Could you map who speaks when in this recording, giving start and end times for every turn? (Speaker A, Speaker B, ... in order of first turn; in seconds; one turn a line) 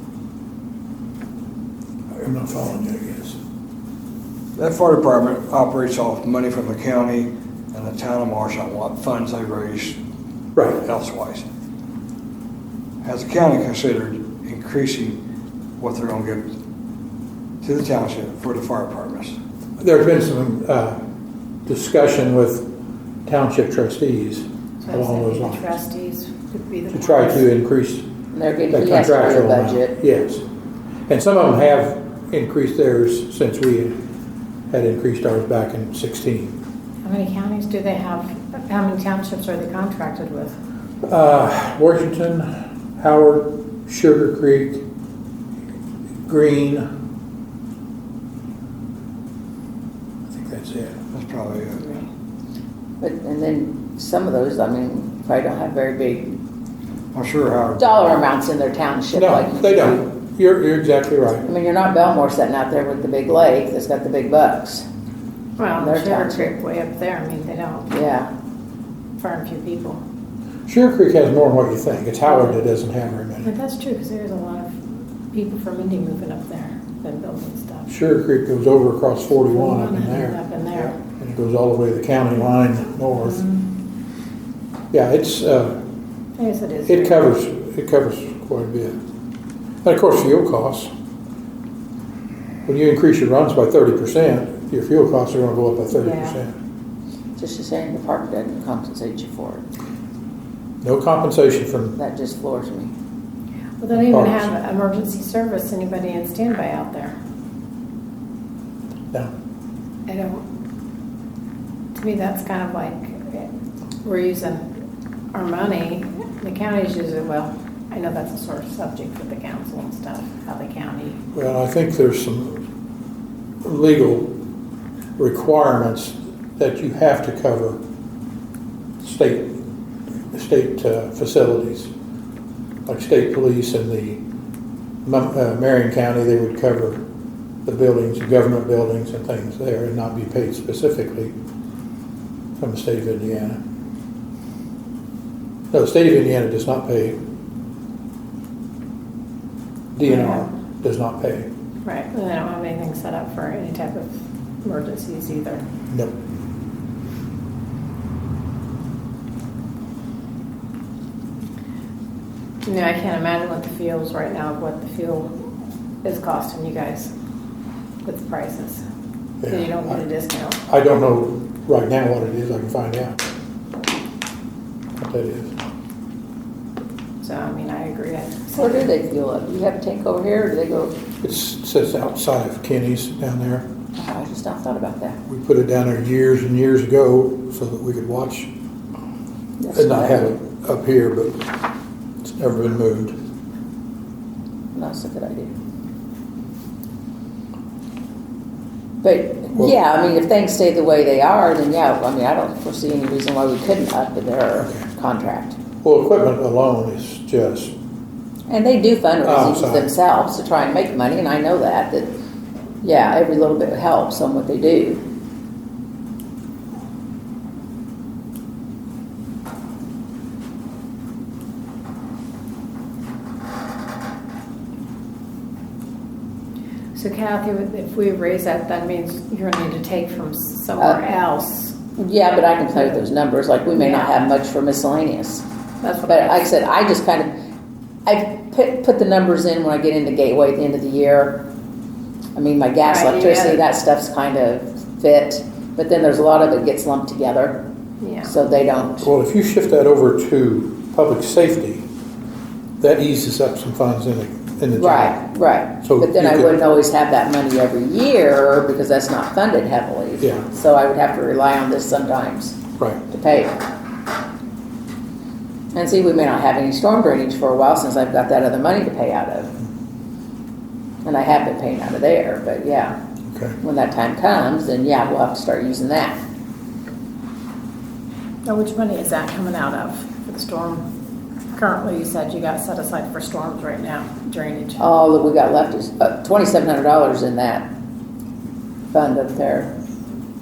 Speaker A: 2.2-3.4
Speaker B: 4.5-10.0
Speaker A: 10.5-10.8
Speaker B: 10.8-11.4
Speaker B: 13.0-15.2
Speaker B: 15.8-16.5
Speaker B: 17.6-19.4
Speaker A: 19.8-21.0
Speaker A: 21.6-22.7
Speaker A: 23.2-25.8
Speaker C: 24.8-27.4
Speaker A: 26.9-28.1
Speaker D: 28.3-29.9
Speaker A: 28.7-30.4
Speaker A: 31.1-34.0
Speaker A: 34.7-36.6
Speaker C: 37.0-40.6
Speaker A: 41.0-44.9
Speaker A: 46.2-46.9
Speaker A: 50.3-51.0
Speaker B: 51.1-51.9
Speaker D: 53.0-56.4
Speaker B: 57.1-57.9
Speaker D: 57.8-60.0
Speaker A: 59.1-61.5
Speaker D: 61.4-64.9
Speaker C: 65.6-68.1
Speaker D: 65.8-66.5
Speaker D: 67.9-68.3
Speaker C: 69.2-70.0
Speaker A: 70.7-73.5
Speaker C: 73.4-74.8
Speaker C: 75.3-77.9
Speaker A: 77.9-80.4
Speaker C: 79.5-81.0
Speaker A: 81.0-83.4
Speaker C: 83.2-83.6
Speaker A: 84.9-85.8
Speaker C: 86.4-87.1
Speaker A: 86.9-89.0
Speaker A: 89.8-90.9
Speaker A: 92.6-96.5
Speaker C: 96.0-96.3
Speaker D: 97.4-99.7
Speaker A: 100.8-102.0
Speaker D: 102.0-102.9
Speaker C: 103.8-107.2
Speaker A: 103.9-104.5
Speaker C: 110.1-110.4
Speaker C: 111.9-113.5
Speaker C: 114.0-114.6
Speaker C: 115.3-121.2
Speaker A: 121.3-122.6
Speaker A: 123.6-124.3
Speaker A: 125.2-127.8
Speaker A: 129.0-129.6
Speaker A: 130.3-131.9
Speaker A: 132.8-134.2
Speaker A: 135.0-137.0
Speaker A: 137.7-141.3
Speaker A: 142.6-143.6
Speaker A: 145.7-147.2
Speaker A: 149.9-151.5
Speaker C: 150.1-150.5
Speaker C: 151.8-155.6
Speaker A: 155.9-156.2
Speaker C: 162.7-165.3
Speaker C: 166.0-167.1
Speaker C: 168.0-168.8
Speaker A: 169.4-170.0
Speaker C: 169.5-170.6
Speaker A: 170.7-173.2
Speaker A: 175.0-175.6
Speaker C: 177.2-178.9
Speaker D: 178.6-180.9
Speaker A: 181.2-183.7
Speaker D: 184.0-185.2
Speaker A: 185.3-188.5
Speaker D: 189.6-190.3
Speaker A: 189.7-191.5
Speaker A: 192.2-193.2
Speaker D: 194.7-195.5
Speaker D: 199.0-205.6
Speaker A: 204.6-204.8
Speaker A: 205.8-207.7
Speaker D: 208.5-212.2
Speaker A: 209.2-209.9
Speaker D: 212.8-215.0
Speaker C: 226.9-231.8
Speaker D: 232.0-235.4
Speaker C: 233.8-234.1
Speaker C: 235.8-236.5
Speaker D: 236.1-237.3
Speaker D: 238.1-241.5
Speaker D: 242.3-247.7
Speaker C: 242.8-243.6
Speaker C: 248.0-248.3
Speaker D: 248.2-249.1
Speaker A: 249.0-251.9
Speaker A: 252.8-255.2
Speaker D: 254.8-262.6
Speaker A: 255.8-256.6
Speaker A: 260.2-260.5
Speaker A: 262.8-263.0
Speaker D: 263.1-263.6
Speaker D: 265.7-269.5
Speaker D: 271.0-273.0
Speaker A: 273.3-273.6
Speaker D: 273.6-276.2
Speaker C: 278.4-280.8
Speaker C: 281.5-284.9
Speaker D: 284.8-287.7
Speaker D: 288.9-289.8